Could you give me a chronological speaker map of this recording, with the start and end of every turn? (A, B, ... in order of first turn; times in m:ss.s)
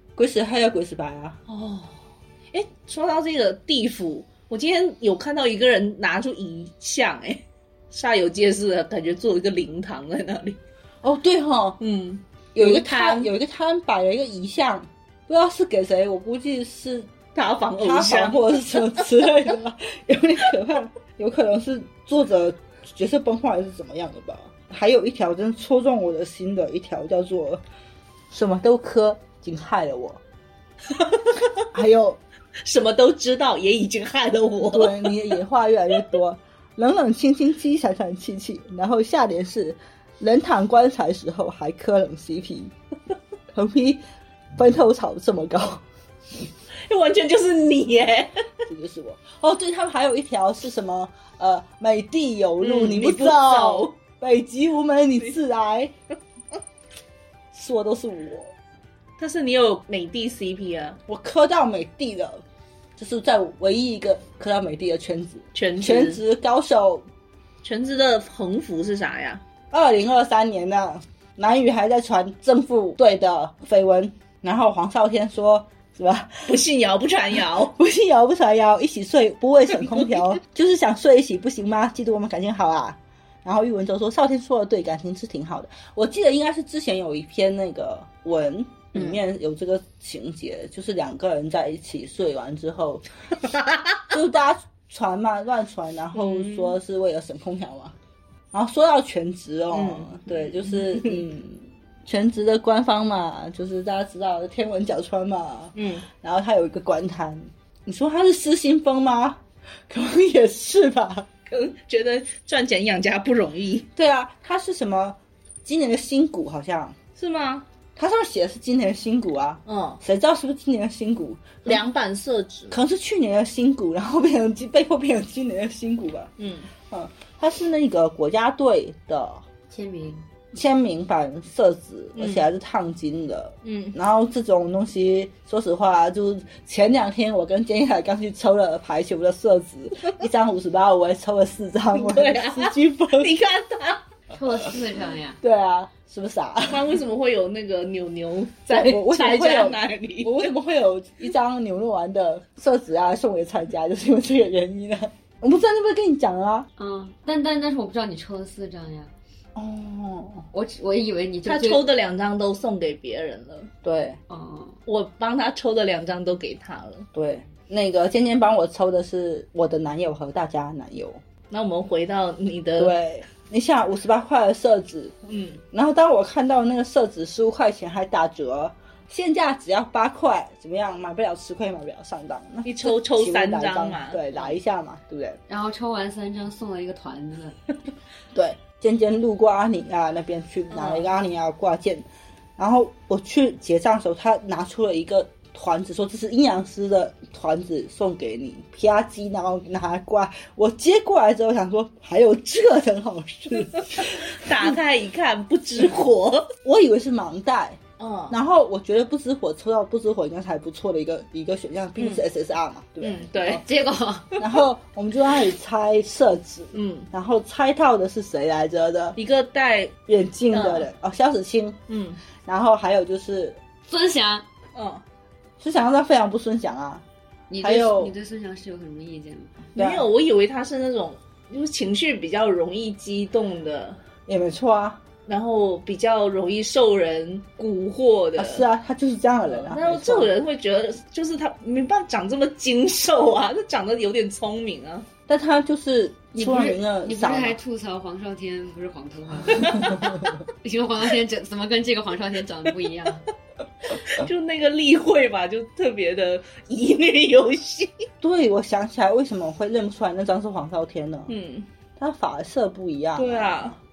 0:00.2-0:01.4 A
0:01.5-0:10.6 B
0:11.0-0:11.8 A
0:11.8-0:13.3 B
0:12.5-0:17.1 A
0:17.3-0:19.3 B
0:17.8-0:27.6 A
0:28.3-0:30.2 A
0:30.9-0:31.6 B
0:31.7-0:32.2 A
0:32.6-0:35.2 B
0:34.7-0:42.7 A
0:43.5-0:44.0 A
0:44.5-0:45.8 A
0:46.9-0:48.5 B
0:48.7-0:55.9 A
0:52.6-0:54.0 B
0:57.5-0:58.5 A
0:59.2-1:01.0 B
1:01.1-1:02.4 A
1:03.0-1:07.0 A
1:05.5-1:06.2 B
1:07.6-1:09.4 B
1:09.7-1:16.6 A
1:16.5-1:17.7 B
1:17.4-1:33.0 A
1:34.1-1:38.0 A
1:36.1-1:36.8 B
1:38.5-1:51.3 A
1:39.7-1:41.2 B
1:45.7-1:46.1 B
1:51.5-1:53.9 B
1:54.0-1:57.0 A
1:57.2-1:57.6 B
1:58.0-2:01.8 A
1:59.6-2:00.0 B
2:01.6-2:02.8 B
2:02.7-2:06.3 A
2:06.4-2:06.7 B
2:06.9-2:09.4 A
2:09.7-2:10.2 C
2:10.5-2:23.3 A
2:12.1-2:12.5 B
2:13.6-2:14.0 B
2:21.9-2:24.0 B
2:24.3-2:25.4 C
2:25.4-2:27.0 A
2:26.7-2:30.5 B
2:28.7-2:36.7 A
2:36.8-2:39.1 C
2:39.6-2:40.4 A
2:40.5-2:41.8 C
2:41.4-2:43.7 B
2:43.8-2:44.2 A
2:44.3-2:44.8 C
2:44.8-2:47.1 B
2:47.1-2:51.2 A
2:51.5-2:52.9 B
2:52.8-2:55.1 A
2:55.2-2:55.6 B
2:55.7-3:05.4 A
3:02.6-3:04.5 B
3:05.5-3:07.6 C
3:08.3-3:12.0 A
3:10.7-3:11.1 B
3:12.6-3:24.7 A
3:23.6-3:26.5 B
3:26.6-3:33.6 A
3:28.0-3:28.4 B
3:32.0-3:32.2 B
3:33.0-3:33.6 B
3:33.5-3:34.4 C
3:34.3-3:34.6 B
3:34.4-3:39.2 A
3:36.7-3:37.1 B
3:39.2-3:40.0 B
3:40.1-3:41.8 A
3:40.5-3:40.9 B
3:41.9-3:42.2 B
3:42.4-3:43.6 A
3:43.9-3:44.4 C
3:44.7-3:45.0 B
3:45.6-3:47.0 A
3:47.5-3:49.6 C
3:47.6-3:48.1 A
3:49.8-3:50.1 A
3:49.8-3:54.0 B
3:54.3-3:55.0 A
3:55.2-3:58.6 B
3:58.4-4:00.4 A
3:59.5-4:05.0 B
4:05.3-4:07.6 A
4:06.3-4:10.0 C
4:10.6-4:13.2 C
4:13.8-4:18.0 B
4:18.2-4:21.3 A
4:21.3-4:21.7 B
4:22.0-4:23.7 A
4:23.2-4:23.8 B